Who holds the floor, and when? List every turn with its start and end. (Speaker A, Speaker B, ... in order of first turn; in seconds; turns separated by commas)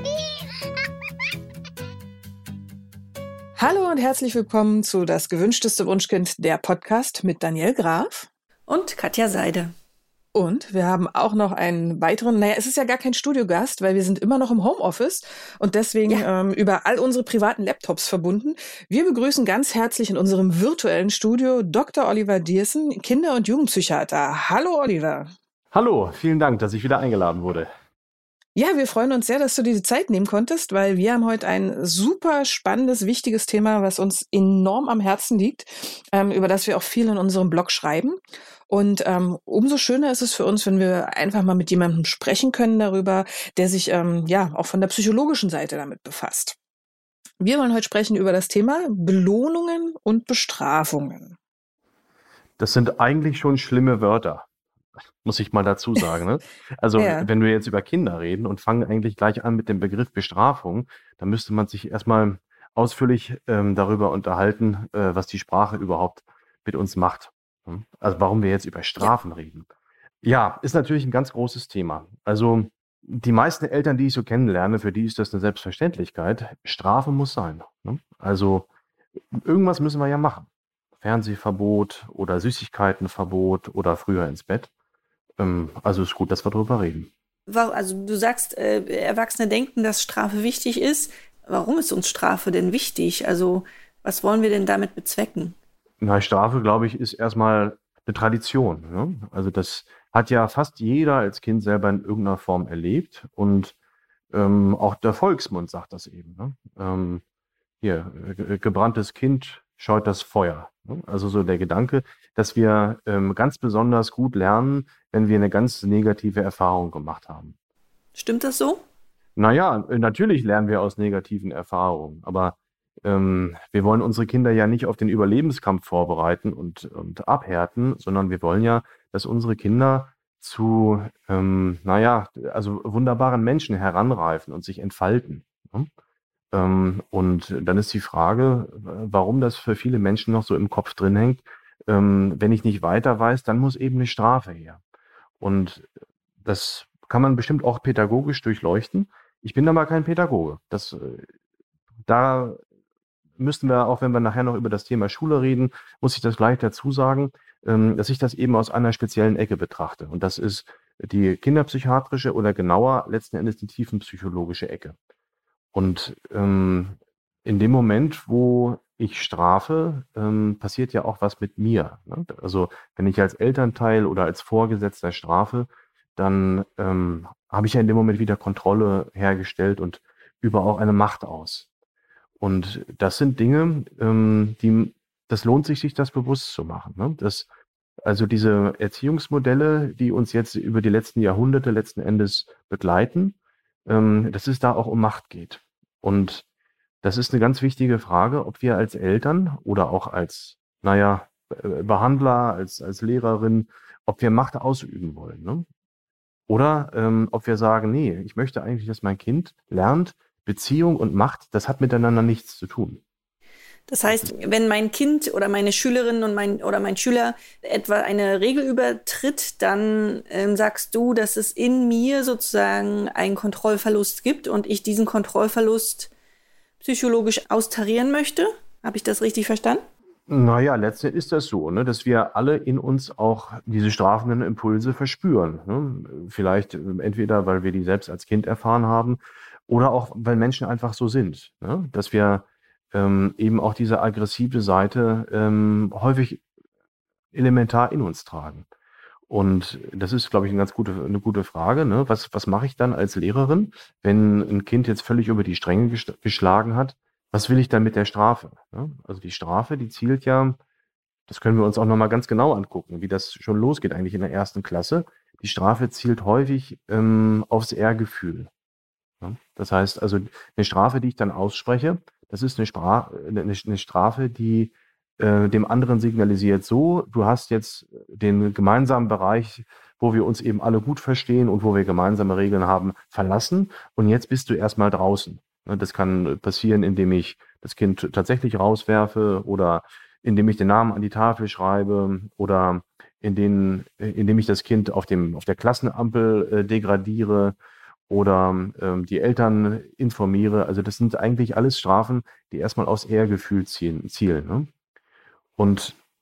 Speaker A: 3.5-8.3, Speaker B: 8.7-9.7, Speaker A: 10.3-25.3, Speaker C: 25.7-27.7, Speaker A: 28.6-46.5, Speaker A: 47.4-51.3, Speaker C: 52.6-54.4, Speaker C: 55.2-69.7, Speaker A: 57.0-57.3, Speaker C: 70.2-78.7, Speaker C: 79.3-80.5, Speaker C: 81.0-84.7, Speaker C: 85.4-87.1, Speaker B: 87.5-95.5, Speaker C: 96.0-103.7, Speaker C: 104.3-107.2, Speaker C: 107.8-117.5, Speaker B: 118.2-118.8, Speaker C: 119.3-135.9, Speaker C: 136.5-144.8, Speaker C: 145.4-145.8, Speaker C: 146.4-151.3, Speaker C: 152.1-152.6, Speaker C: 153.4-164.9, Speaker C: 165.7-181.7, Speaker C: 182.4-187.5, Speaker C: 188.0-193.3, Speaker C: 193.8-196.4, Speaker C: 197.0-205.6, Speaker C: 206.5-213.0, Speaker B: 213.9-226.1, Speaker B: 226.8-229.8, Speaker C: 230.3-246.4, Speaker C: 247.3-248.7, Speaker C: 249.3-260.6, Speaker C: 261.3-268.5, Speaker C: 269.2-297.6, Speaker C: 298.1-304.7, Speaker C: 305.6-305.9